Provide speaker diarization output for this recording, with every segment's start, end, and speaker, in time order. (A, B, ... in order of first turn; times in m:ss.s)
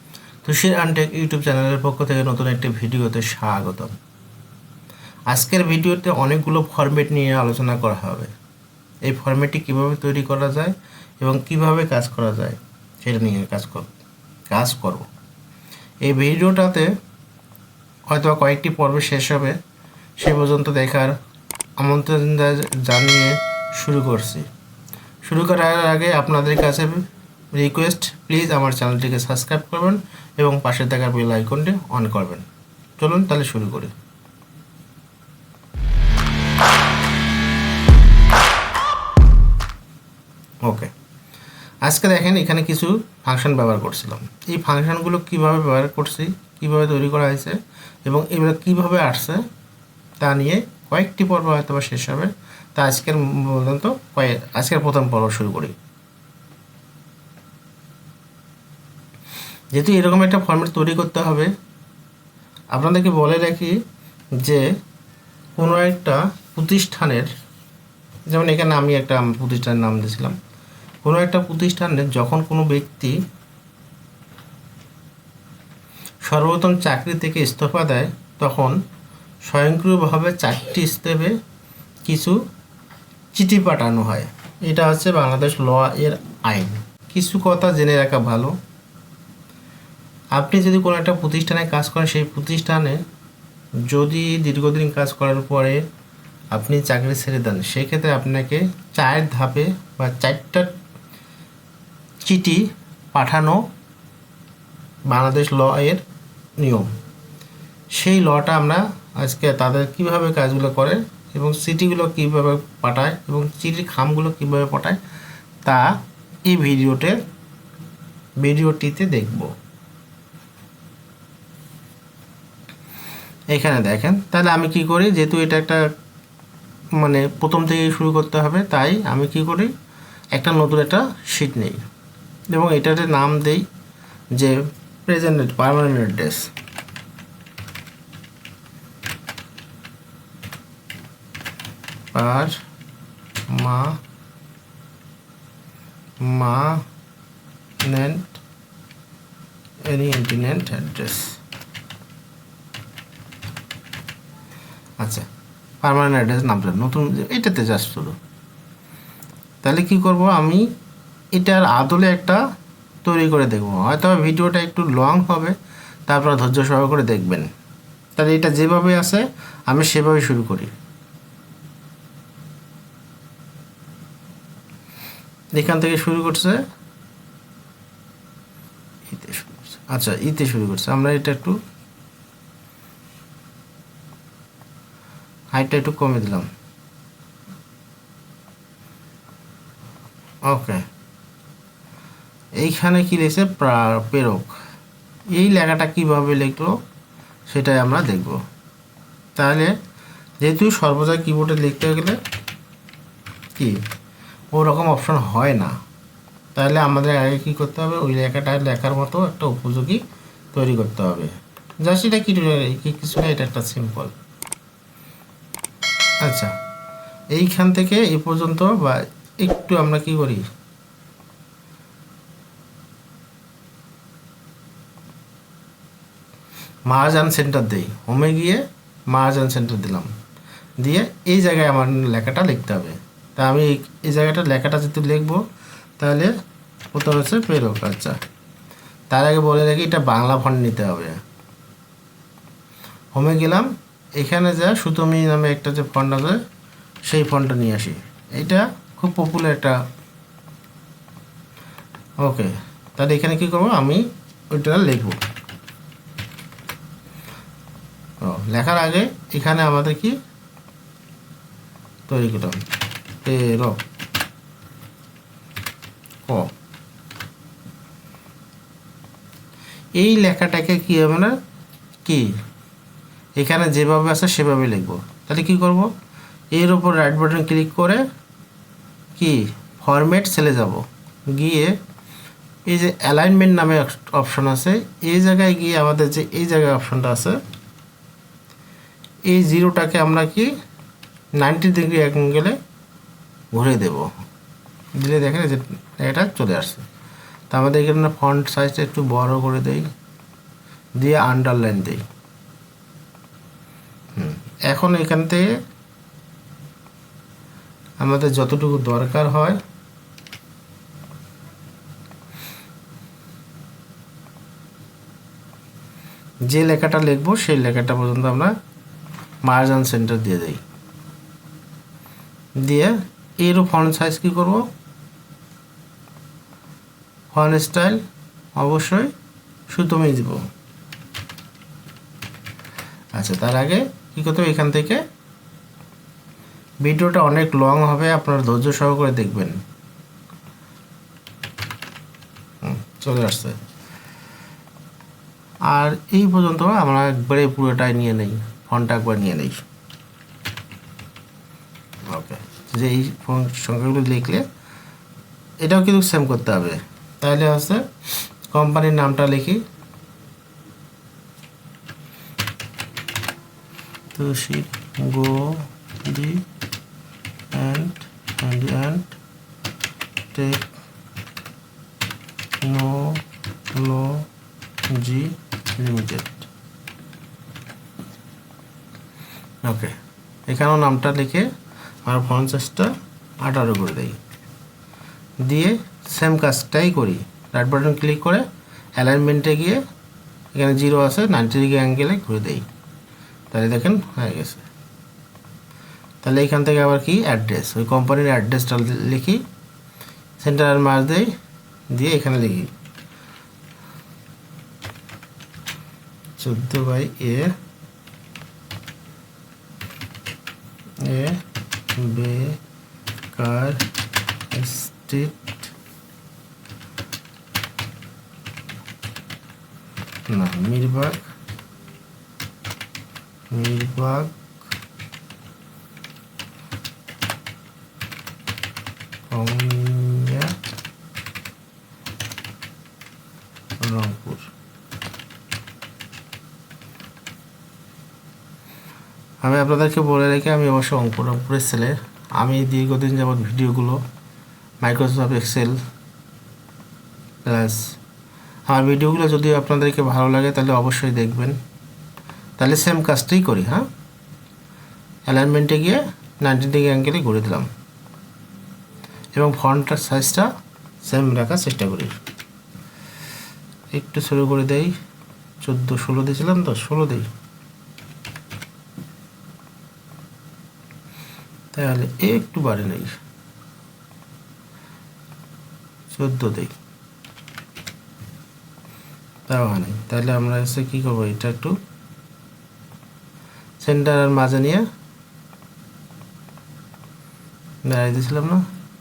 0:00.4-0:03.9 A
0:05.3-0:08.3 A
0:09.0-0:13.9 A
0:14.5-0:15.0 A
0:16.0-0:16.9 A
0:18.1-0:19.6 A
0:20.2-0:21.2 A
0:21.8-0:24.5 A
0:25.2-0:32.4 A
0:33.0-0:33.9 A
0:40.6-0:40.9 A
0:41.8-0:49.4 A
0:50.2-0:55.7 A
0:59.7-1:01.5 A
1:02.7-1:03.8 A
1:04.4-1:04.6 A
1:05.6-1:07.3 A
1:08.3-1:10.4 A
1:11.0-1:13.2 A
1:16.2-1:18.7 A
1:19.4-1:21.3 A
1:22.1-1:22.4 A
1:23.3-1:28.5 A
1:30.4-1:33.0 A
1:33.9-1:35.8 A
1:36.5-1:40.7 A
1:42.2-1:43.6 A
1:45.1-1:46.0 A
1:46.6-1:46.9 A
1:47.9-1:55.0 A
1:55.6-1:55.9 A
1:56.4-1:57.2 A
1:58.4-1:59.5 A
2:03.5-2:05.8 A
2:07.0-2:09.7 A
2:10.3-2:11.8 A
2:12.5-2:13.6 A
2:14.4-2:16.5 A
2:22.1-2:22.6 A
2:23.5-2:24.0 A
2:26.2-2:26.8 A
2:27.8-2:28.4 A
2:29.9-2:31.4 A
2:35.0-2:35.2 A
2:35.8-2:38.2 A
2:39.6-2:40.6 A
2:41.4-2:42.4 A
2:43.0-2:45.6 A
2:46.1-2:47.5 A
2:48.2-2:50.7 A
2:55.6-2:56.6 A
2:59.1-3:01.6 A
3:05.5-3:06.5 A
3:10.5-3:10.8 A
3:12.6-3:14.5 A
3:15.3-3:16.7 A
3:17.5-3:18.4 A
3:19.4-3:19.7 A
3:20.4-3:22.2 A
3:24.5-3:25.8 A
3:26.5-3:30.0 A
3:30.5-3:34.2 A
3:36.2-3:36.5 A
3:37.3-3:40.4 A
3:46.9-3:50.1 A
3:50.8-3:55.4 A
3:56.0-3:56.3 A
3:56.9-3:58.2 A
3:59.1-4:01.2 A
4:03.1-4:06.4 A
4:07.0-4:09.8 A
4:12.2-4:15.2 A
4:18.2-4:20.2 A
4:22.1-4:22.6 A
4:23.2-4:23.8 A
4:30.0-4:31.3 A
4:32.0-4:32.3 A
4:33.4-4:35.9 A
4:36.5-4:38.0 A
4:39.2-4:41.7 A
4:42.7-4:47.4 A
4:49.3-4:50.5 A
4:51.4-4:52.6 A
4:53.5-4:54.1 A
4:55.0-4:56.8 A
4:57.5-4:59.9 A
5:01.0-5:02.0 A
5:04.2-5:05.5 A
5:08.0-5:09.6 A
5:16.5-5:18.5 A
5:19.4-5:20.6 A
5:22.6-5:24.7 A
5:27.3-5:28.0 A
5:28.6-5:29.1 A
5:29.7-5:30.4 A
5:33.1-5:35.0 A
5:36.8-5:39.6 A
5:42.6-5:43.6 A
5:45.7-5:49.6 A
5:52.1-5:54.4 A
5:55.6-5:57.8 A
5:58.5-5:59.6 A
6:04.1-6:06.4 A
6:07.5-6:09.1 A
6:10.3-6:10.7 A
6:12.6-6:13.2 A
6:13.7-6:14.2 A
6:14.9-6:16.5 A
6:19.6-6:20.0 A
6:20.5-6:21.5 A
6:22.0-6:24.2 A
6:25.4-6:28.4 A
6:29.0-6:29.8 A
6:30.5-6:32.6 A
6:33.5-6:34.6 A
6:36.2-6:39.4 A
6:40.4-6:41.3 A
6:41.9-6:42.7 A
6:46.4-6:47.5 A
6:51.0-6:51.4 A
6:51.9-6:52.6 A
6:53.3-6:53.8 A
6:54.5-6:55.5 A
7:00.3-7:01.2 A
7:03.5-7:04.3 A
7:09.3-7:10.5 A
7:13.8-7:14.5 A
7:19.4-7:24.0 A
7:24.8-7:25.8 A
7:27.4-7:27.8 A
7:28.7-7:31.6 A
7:32.6-7:33.9 A
7:35.3-7:37.7 A
7:39.4-7:40.5 A
7:41.0-7:42.1 A
7:43.9-7:44.9 A
7:45.6-7:47.3 A
7:51.7-7:53.1 A
7:56.1-7:56.7 A
7:59.5-8:01.8 A
8:03.8-8:04.8 A
8:07.8-8:08.6 A